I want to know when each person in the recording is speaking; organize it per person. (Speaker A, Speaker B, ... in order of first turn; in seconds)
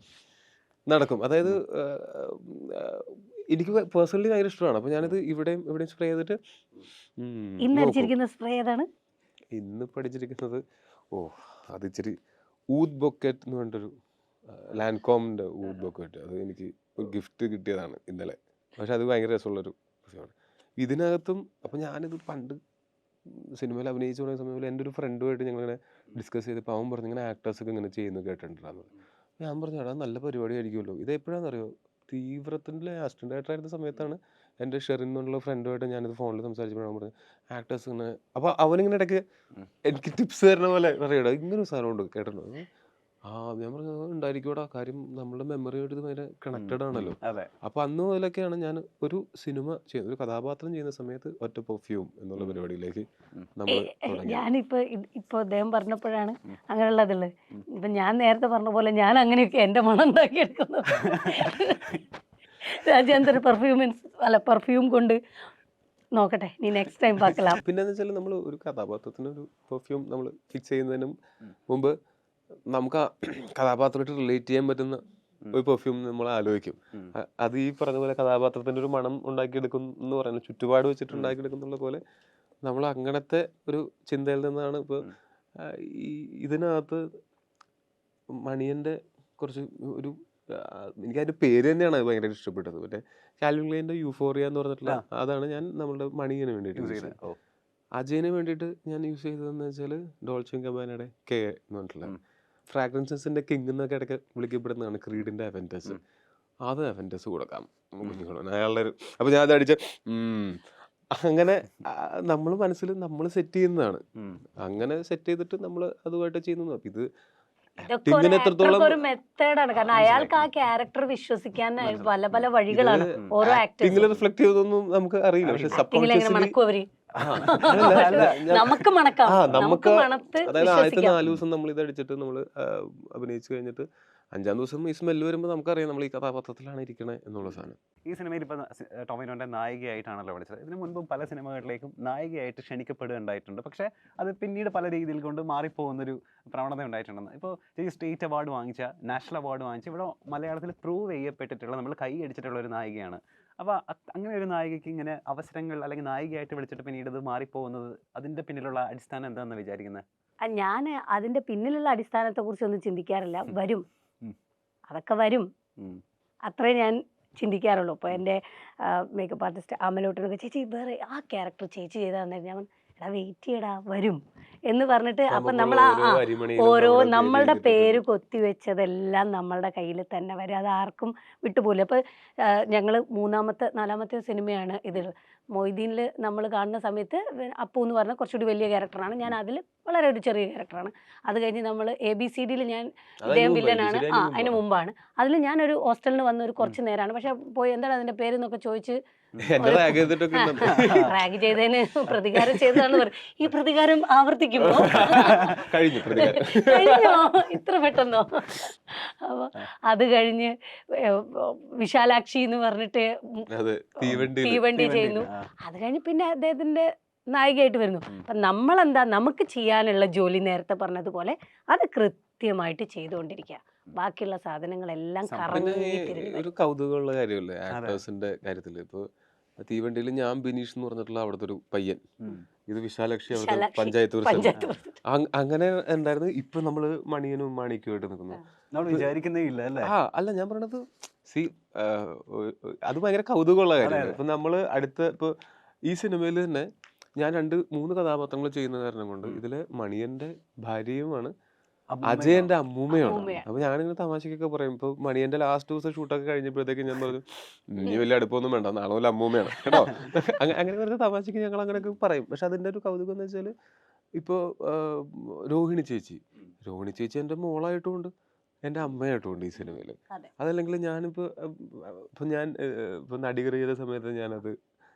Speaker A: 0.9-6.4, 7.2-8.1, 9.5-10.6, 11.1-12.2, 12.7-13.9, 14.5-22.6, 23.3-39.2, 39.9-42.7, 43.3-54.5, 67.6-71.2, 71.7-72.0, 72.7-75.0, 75.5-82.0, 82.7-87.1, 88.5-97.2, 98.0-102.1, 102.7-106.0, 106.7-114.0, 114.6-117.1, 117.8-119.0, 122.7-126.5, 127.2-137.8, 175.3-178.0, 193.2-194.6, 199.4-201.2, 202.3-203.0, 204.6-207.6, 213.5-215.2, 225.5-232.1, 232.7-234.5, 235.1-239.1, 239.8-245.3, 245.9-251.3, 252.0-263.5, 264.2-268.1, 268.6-274.6
Speaker B: 7.6-8.9, 53.7-61.8, 62.6-65.2, 66.2-67.6, 117.9-124.1, 125.7-126.9, 127.4-131.2, 160.4-163.8, 164.9-165.5, 166.5-199.0, 199.6-213.5, 214.0-226.4, 233.3-234.9, 252.9-253.5
Speaker C: 46.5-47.5, 60.9-62.0, 67.3-67.5, 96.8-97.4, 119.7-120.5, 121.8-122.2, 125.4-125.8, 127.2-128.8, 138.1-160.0, 200.7-201.1, 204.8-205.7, 214.1-215.5, 225.3-225.8, 227.7-228.0, 234.4-234.7, 238.7-239.9, 243.8-244.2, 251.9-252.5, 259.6-260.1